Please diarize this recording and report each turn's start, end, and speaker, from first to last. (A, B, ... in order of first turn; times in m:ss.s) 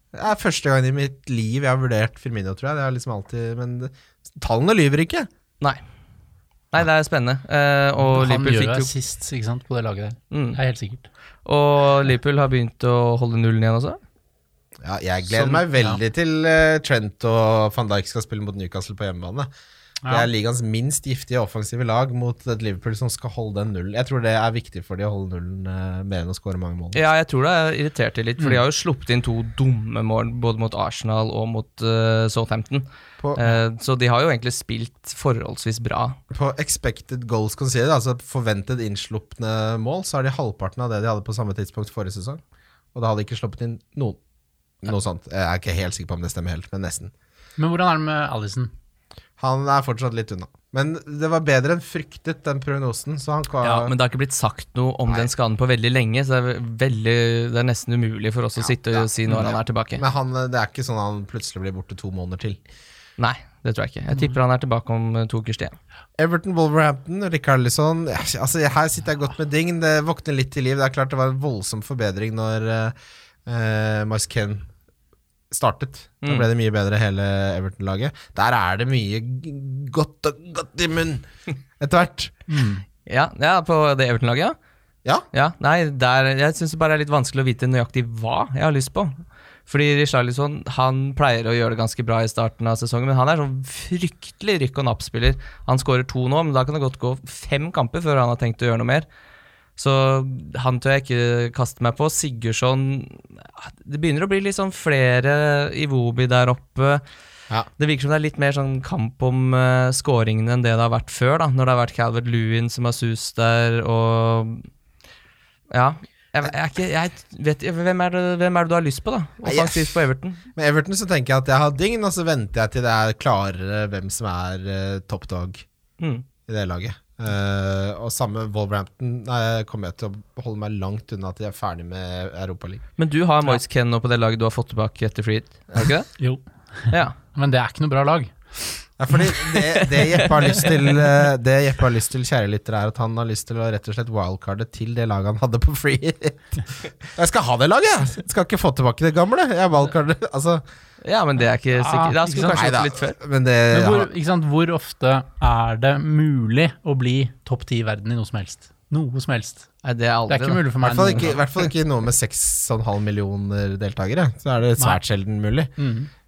0:00.1-0:05.3 A
0:06.7-0:08.9 B
0:08.0-0:11.1 C
0:10.3-0:10.6 B
0:11.4-0:14.0 B
0:14.8-0:19.5 A
0:15.3-0:15.6 B
0:20.0-0:20.3 C
0:20.1-0:27.0 A
0:26.9-0:36.2 B
0:36.3-0:42.4 A
0:42.9-0:44.2 A
0:44.8-0:47.1 A
0:47.6-0:48.7 C
0:49.4-0:53.9 A
0:53.6-1:00.0 B
0:58.6-1:02.6 A
1:03.2-1:05.8 B
1:06.2-1:12.9 A
1:13.4-1:14.7 A
1:15.5-1:21.2 A
1:21.8-1:22.3 A
1:22.5-1:22.8 C
1:23.0-1:24.6 B
1:25.3-1:29.1 B
1:29.7-1:39.0 B
1:39.8-1:47.0 B
1:47.8-1:54.7 B
1:55.7-2:00.4 B
1:59.4-2:00.0 A
2:00.5-2:05.6 A
2:06.0-2:06.2 B
2:06.5-2:12.8 A
2:13.0-2:16.2 B
2:16.2-2:18.8 C
2:19.0-2:30.6 A
2:19.8-2:20.7 B
2:31.0-2:33.2 B
2:31.7-2:32.6 C
2:32.5-2:34.1 A
2:33.7-2:39.7 C
2:39.8-2:40.6 B
2:40.3-2:41.4 C
2:40.8-2:45.7 A
2:45.8-2:46.1 C